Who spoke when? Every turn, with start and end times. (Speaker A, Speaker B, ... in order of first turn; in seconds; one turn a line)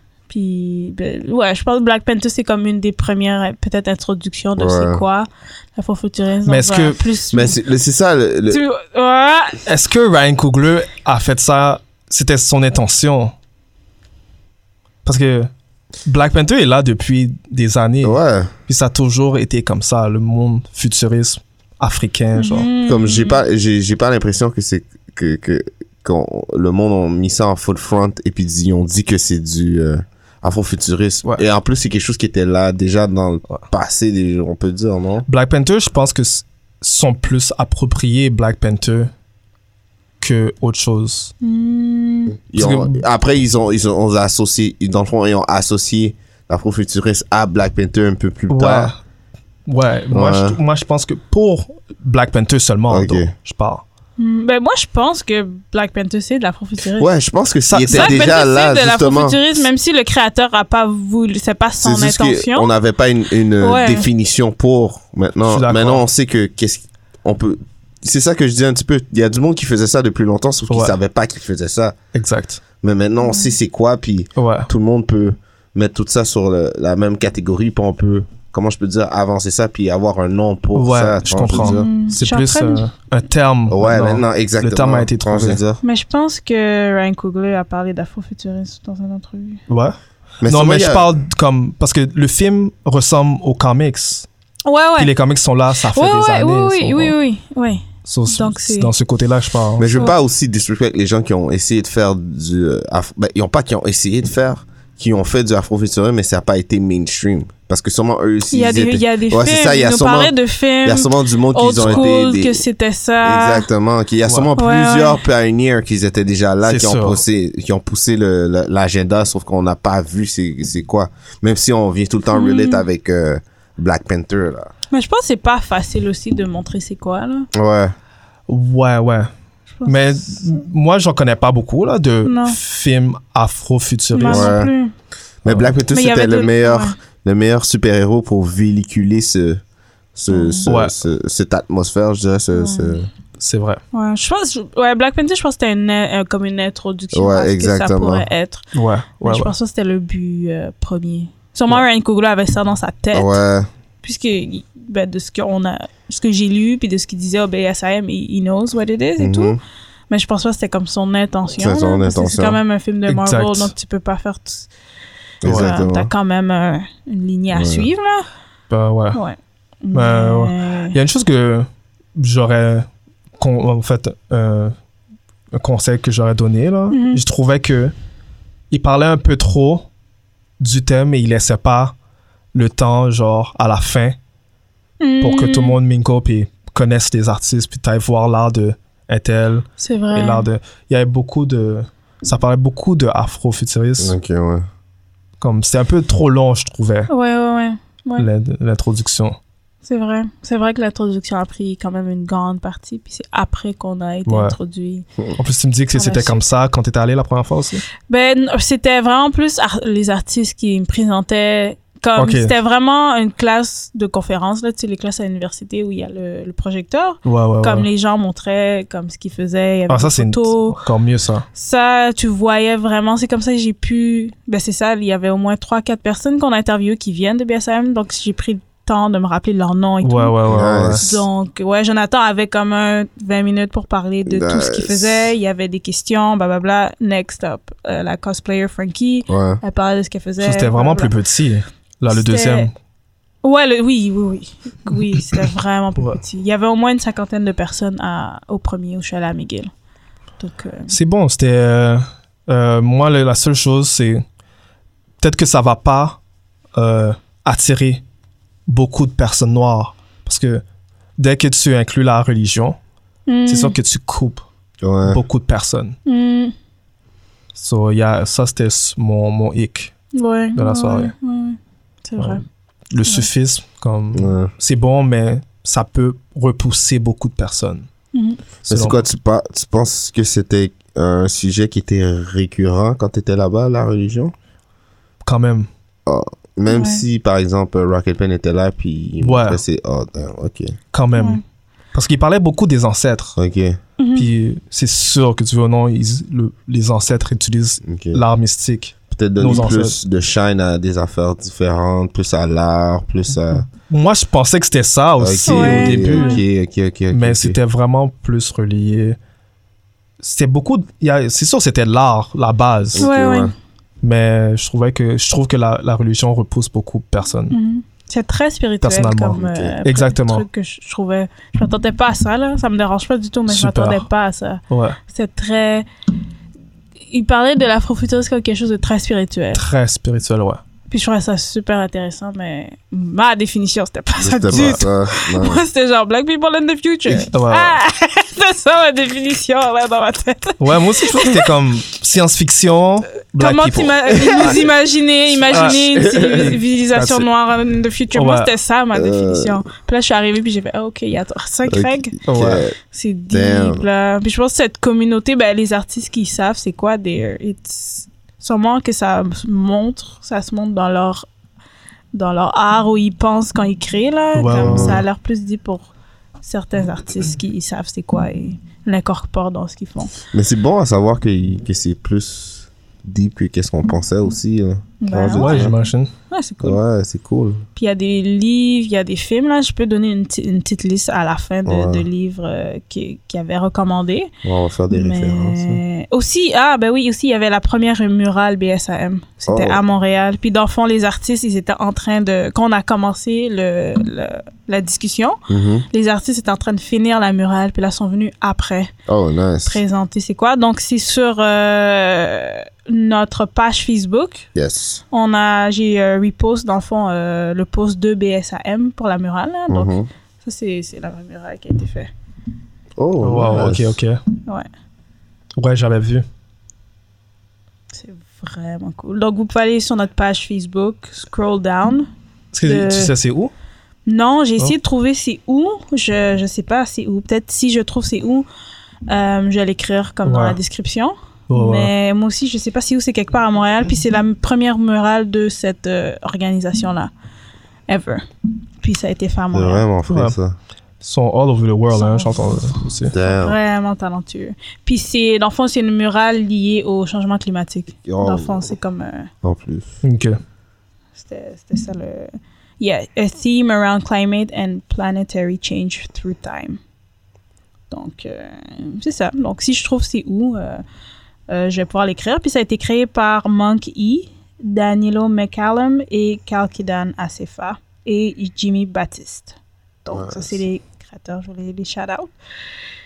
Speaker A: 0.3-7.6
Speaker B: 4.6-5.0
Speaker C: 6.5-7.0
Speaker B: 7.3-8.6
Speaker A: 8.5-9.6
Speaker C: 9.7-13.3
Speaker C: 15.1-15.5
Speaker C: 16.1-22.7
Speaker B: 18.0-18.5
Speaker A: 22.4-23.4
Speaker B: 22.9-35.3
Speaker C: 35.3-39.1
Speaker C: 40.2-41.3
Speaker A: 41.4-42.4
Speaker B: 42.4-48.9
Speaker C: 42.5-43.0
Speaker C: 48.5-49.0
Speaker C: 49.7-53.8
Speaker B: 50.1-50.6
Speaker B: 52.9-53.3
Speaker A: 54.2-57.1
Speaker B: 57.0-59.4
Speaker C: 57.7-58.3
Speaker A: 57.9-62.7
Speaker B: 61.8-72.0
Speaker A: 63.6-64.1
Speaker C: 65.5-66.0
Speaker C: 70.7-70.9
Speaker C: 72.1-72.6
Speaker B: 72.8-81.9
Speaker A: 73.2-73.5
Speaker C: 74.4-74.7
Speaker C: 80.8-85.6
Speaker A: 81.6-82.8
Speaker B: 83.7-85.8
Speaker A: 85.8-89.6
Speaker C: 89.7-94.3
Speaker B: 90.4-91.2
Speaker A: 94.7-95.1
Speaker C: 95.0-97.1
Speaker A: 95.9-98.9
Speaker C: 98.0-100.0
Speaker B: 99.8-112.6
Speaker A: 108.5-113.7
Speaker C: 111.8-112.1
Speaker B: 113.2-124.7
Speaker A: 114.6-115.2
Speaker C: 116.6-117.2
Speaker A: 122.3-122.8
Speaker A: 124.9-127.5
Speaker B: 127.5-128.0
Speaker C: 128.5-129.3
Speaker A: 129.7-130.6
Speaker C: 129.8-134.5
Speaker A: 132.2-132.6
Speaker A: 134.1-134.9
Speaker B: 134.2-134.7
Speaker B: 135.4-139.6
Speaker A: 135.9-137.0
Speaker B: 140.2-143.1
Speaker A: 140.3-140.7
Speaker C: 140.7-140.9
Speaker A: 142.5-143.0
Speaker C: 143.4-143.8
Speaker A: 143.9-148.7
Speaker B: 147.1-148.3
Speaker C: 148.7-149.5
Speaker A: 149.2-153.4
Speaker B: 153.1-153.7
Speaker A: 154.0-159.6
Speaker B: 159.2-159.6
Speaker A: 160.1-164.7
Speaker B: 161.6-162.6
Speaker C: 163.1-163.7
Speaker B: 165.4-166.1
Speaker C: 165.4-165.8
Speaker A: 165.5-168.3
Speaker B: 167.5-167.9
Speaker C: 168.7-169.2
Speaker A: 169.1-171.0
Speaker C: 169.9-172.9
Speaker C: 173.4-174.7
Speaker C: 175.5-177.9
Speaker A: 176.9-177.2
Speaker C: 178.7-179.9
Speaker C: 180.6-181.9
Speaker C: 182.5-184.2
Speaker A: 185.0-185.8
Speaker C: 185.2-194.2
Speaker A: 189.8-190.5
Speaker B: 194.0-194.7
Speaker C: 195.4-197.1
Speaker A: 197.1-198.3
Speaker C: 198.2-199.4
Speaker A: 199.8-205.1
Speaker C: 204.3-204.6
Speaker C: 205.4-207.8
Speaker A: 205.9-206.4
Speaker A: 208.1-220.8
Speaker C: 212.2-212.5
Speaker C: 217.2-217.9
Speaker C: 219.9-221.5
Speaker A: 221.5-230.4
Speaker C: 230.0-231.1
Speaker B: 230.5-231.3
Speaker A: 231.0-241.1
Speaker B: 234.3-235.3
Speaker B: 239.3-239.6
Speaker C: 240.4-242.7
Speaker A: 242.1-242.7
Speaker A: 243.4-249.7
Speaker A: 250.4-250.9
Speaker C: 250.9-254.2
Speaker C: 255.2-256.2
Speaker C: 256.8-258.0
Speaker C: 258.7-260.6
Speaker C: 261.2-262.8
Speaker A: 263.3-263.8
Speaker C: 263.5-264.4
Speaker B: 264.8-265.2
Speaker C: 265.1-266.0
Speaker A: 266.1-266.5
Speaker C: 267.6-269.9
Speaker A: 270.1-272.4
Speaker C: 270.6-271.1
Speaker C: 272.9-277.9
Speaker B: 274.1-274.5
Speaker A: 278.1-278.4
Speaker C: 278.7-279.0
Speaker B: 278.7-284.3
Speaker C: 285.2-285.7
Speaker B: 286.1-290.8
Speaker A: 286.7-287.0
Speaker C: 289.2-289.6
Speaker C: 290.9-291.4
Speaker C: 291.9-293.4
Speaker B: 293.4-293.8
Speaker A: 294.0-294.3
Speaker C: 294.2-300.0
Speaker B: 297.8-298.2
Speaker B: 299.1-303.7
Speaker C: 303.7-306.4
Speaker B: 305.2-307.6
Speaker A: 305.5-306.4
Speaker C: 307.1-309.2
Speaker C: 310.2-313.1
Speaker B: 312.9-313.5
Speaker A: 313.0-313.5
Speaker C: 314.0-317.6
Speaker A: 317.5-325.9
Speaker C: 318.8-320.5
Speaker B: 319.3-319.7
Speaker C: 323.5-324.1
Speaker C: 324.7-325.0
Speaker A: 327.1-329.6
Speaker C: 329.5-330.6
Speaker A: 330.9-341.5
Speaker B: 334.2-335.6
Speaker C: 334.5-334.8
Speaker C: 337.3-337.8
Speaker C: 340.6-344.6
Speaker A: 343.4-352.2
Speaker C: 345.5-347.3
Speaker B: 345.6-346.5
Speaker C: 348.1-348.5
Speaker B: 348.9-349.6
Speaker B: 351.7-352.8
Speaker C: 352.3-352.6
Speaker A: 352.9-361.3
Speaker B: 353.3-353.8
Speaker A: 362.1-365.9
Speaker C: 364.4-365.0
Speaker B: 364.6-365.0
Speaker A: 366.4-370.1
Speaker B: 370.3-375.8
Speaker A: 375.0-375.7
Speaker C: 375.3-376.1
Speaker A: 376.3-376.8
Speaker B: 376.6-377.6
Speaker A: 377.8-384.3
Speaker B: 381.7-382.1
Speaker B: 384.4-385.8
Speaker A: 384.9-395.4
Speaker B: 389.5-389.8
Speaker B: 395.5-395.9
Speaker A: 395.9-398.9
Speaker B: 399.1-399.8
Speaker A: 399.6-404.5
Speaker B: 404.6-405.0
Speaker A: 405.1-412.1
Speaker B: 409.7-410.1
Speaker B: 413.0-414.0
Speaker C: 413.2-414.2
Speaker C: 415.6-416.2
Speaker A: 417.9-422.1
Speaker C: 422.5-423.5
Speaker A: 422.7-423.1
Speaker A: 424.1-428.5
Speaker A: 429.1-437.1
Speaker C: 430.2-430.6
Speaker C: 431.5-431.9
Speaker A: 437.9-438.2
Speaker A: 438.8-439.9
Speaker B: 439.5-440.6
Speaker C: 440.1-440.4
Speaker C: 441.0-443.1
Speaker A: 441.9-442.7
Speaker B: 443.1-443.6
Speaker A: 443.2-449.3
Speaker B: 448.1-448.7
Speaker B: 449.4-450.0
Speaker C: 450.0-450.4
Speaker A: 451.2-456.8
Speaker A: 457.9-460.8
Speaker A: 461.5-472.3
Speaker B: 470.1-470.6